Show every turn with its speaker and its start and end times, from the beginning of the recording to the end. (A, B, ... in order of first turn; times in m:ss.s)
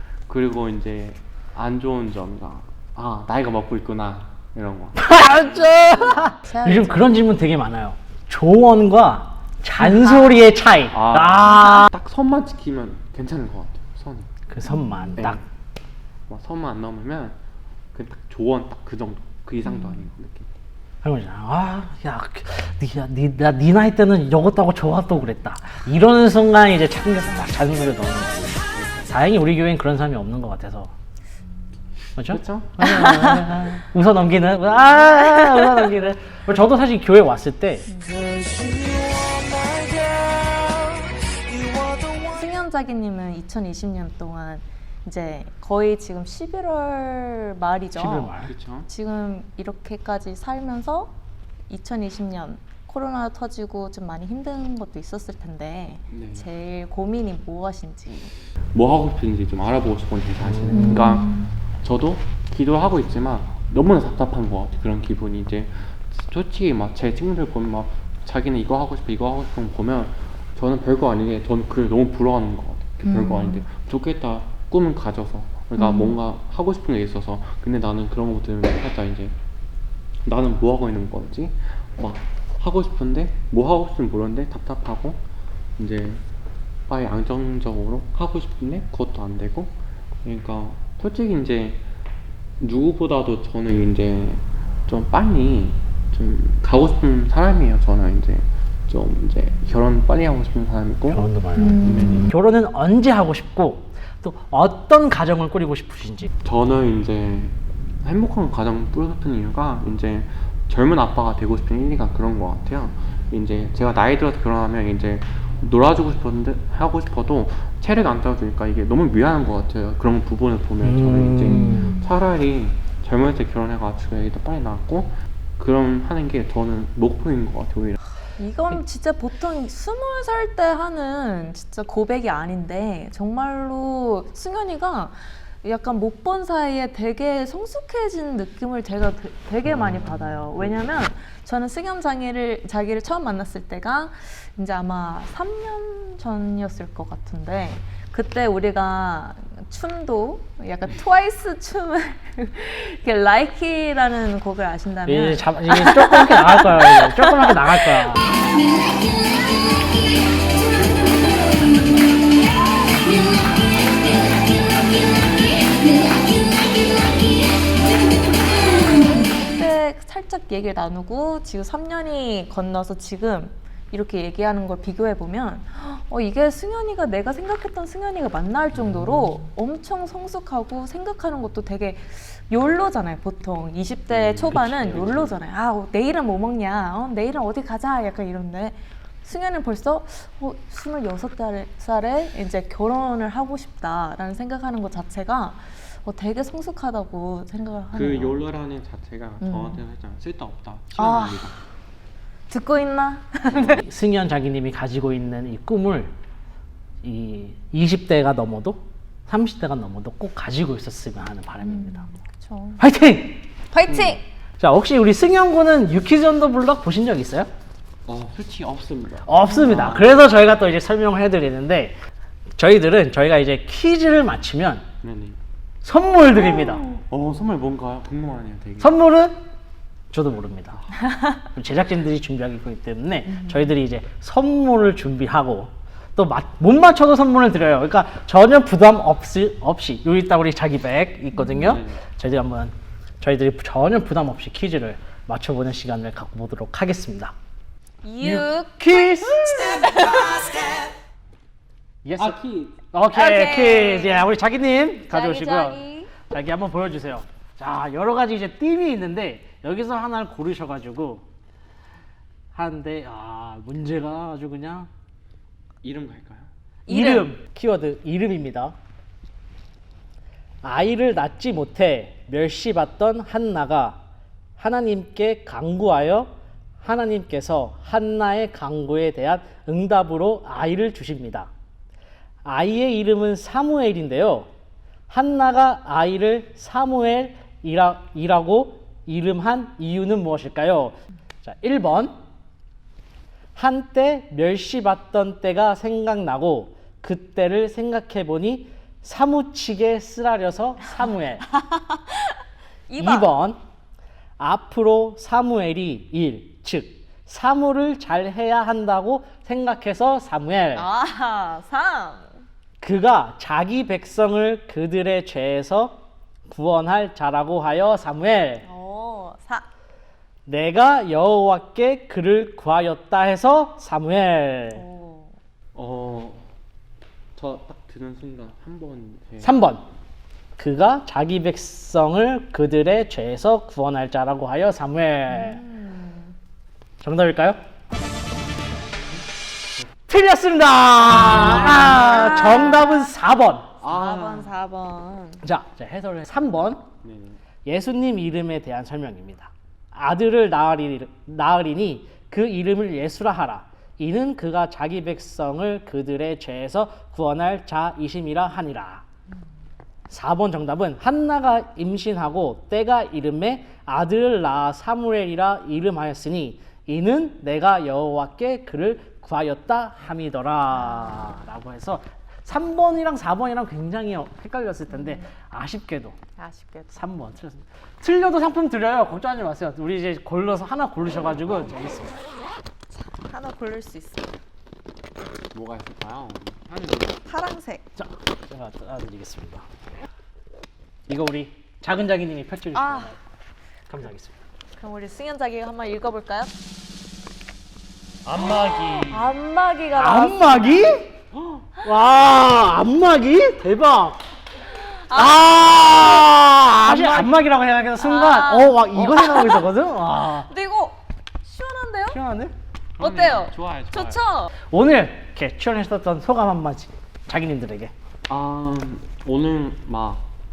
0:00.3-0:06.4 A
0:05.0-0:11.9 B
0:06.4-0:07.2 C
0:09.8-0:10.4 C
0:10.9-0:14.3 A
0:14.5-0:15.4 B
0:14.7-0:15.2 C
0:15.2-0:15.4 A
0:16.3-0:17.4 A
0:17.9-0:20.5 A
0:19.7-0:20.0 C
0:21.0-0:30.9 B
0:28.7-0:29.1 A
0:32.2-0:37.9 B
0:32.3-0:32.8 A
0:32.8-0:33.5 C
0:35.3-0:35.5 C
0:37.9-0:38.3 C
0:42.3-0:48.4 C
0:47.9-0:48.5 B
0:48.4-0:48.9 A
0:48.9-0:51.1 C
0:51.7-0:58.3 C
0:56.1-0:56.5 A
0:58.7-1:19.4 A
1:00.5-1:01.1 B
1:00.7-1:01.5 C
1:13.0-1:13.6 C
1:15.8-1:16.2 C
1:20.2-1:25.2 A
1:25.8-1:26.2 A
1:26.9-1:29.7 A
1:30.2-1:31.8 A
1:32.6-1:41.2 A
1:41.1-1:46.3 B
1:41.6-1:42.3 C
1:41.8-1:42.3 A
1:46.4-2:08.0 A
2:00.8-2:01.9 B
2:01.5-2:02.1 C
2:08.4-2:38.1 C
2:19.6-2:21.1 A
2:35.1-2:38.2 B
2:48.6-3:18.4 C
3:04.1-3:05.4 A
3:17.9-3:21.6 A
3:19.4-3:19.8 C
3:21.0-3:21.5 C
3:22.5-3:23.8 C
3:23.5-3:23.8 A
3:23.7-3:26.1 B
3:27.0-3:32.1 B
3:31.6-3:32.8 C
3:32.8-3:33.4 B
3:33.7-3:34.2 C
3:33.9-3:34.2 A
3:34.6-3:37.5 B
3:38.1-3:40.3 A
3:39.3-3:42.0 B
3:39.5-3:39.8 C
3:42.6-3:44.8 B
3:45.0-3:45.4 A
3:45.8-3:46.8 B
3:46.9-3:49.0 A
3:48.8-3:49.4 B
3:50.1-3:50.8 B
3:51.4-4:07.3 B
3:53.3-3:53.8 C
4:01.3-4:01.8 C
4:01.6-4:02.0 A
4:08.0-4:10.9 C
4:08.2-4:09.7 B
4:12.0-4:21.2 B
4:12.2-4:12.8 A
4:13.1-4:14.3 C
4:15.1-4:16.1 C
4:22.5-4:24.9 B
4:25.8-4:26.5 A
4:26.9-4:27.3 C
4:26.9-4:28.8 B
4:30.6-4:34.0 B
4:34.6-4:41.5 B
4:42.4-4:44.5 B
4:45.1-4:52.2 B
4:53.6-5:01.4 B
5:01.5-5:02.4 C
5:02.9-5:03.3 C
5:03.0-5:03.6 B
5:04.4-5:10.9 B
5:10.8-5:12.4 C
5:12.8-5:18.6 B
5:18.6-5:19.7 C
5:20.5-5:24.8 B
5:24.7-5:25.4 C
5:25.8-5:26.5 A
5:27.4-5:29.5 A
5:29.4-5:29.8 B
5:30.6-5:35.6 B
5:35.3-5:36.4 C
5:37.0-5:37.6 B
5:40.1-5:43.7 B
5:41.2-5:43.1 C
5:43.8-5:44.5 A
5:43.8-5:45.4 C
5:45.4-5:46.8 B
5:47.0-5:47.4 A
5:47.6-5:59.0 B
6:00.1-6:16.2 B
6:11.0-6:11.4 C
6:14.9-6:15.3 C
6:16.4-6:17.0 C
6:16.9-6:22.2 B
6:22.9-6:24.4 C
6:25.5-6:27.2 A
6:27.2-6:27.9 C
6:28.0-6:29.7 B
6:31.1-6:33.2 B
6:32.7-6:33.1 C
6:33.9-6:34.4 B
6:34.8-6:36.5 C
6:38.2-6:39.3 A
6:38.4-6:41.0 C
6:40.0-6:41.1 B
6:41.3-6:41.7 A
6:41.8-6:44.2 B
6:44.8-6:47.4 C
6:45.1-6:50.5 B
6:48.0-6:52.2 C
6:52.1-6:52.5 B
6:53.0-6:54.2 A
6:53.0-6:54.5 C
6:54.7-6:57.9 B
6:58.3-7:00.3 A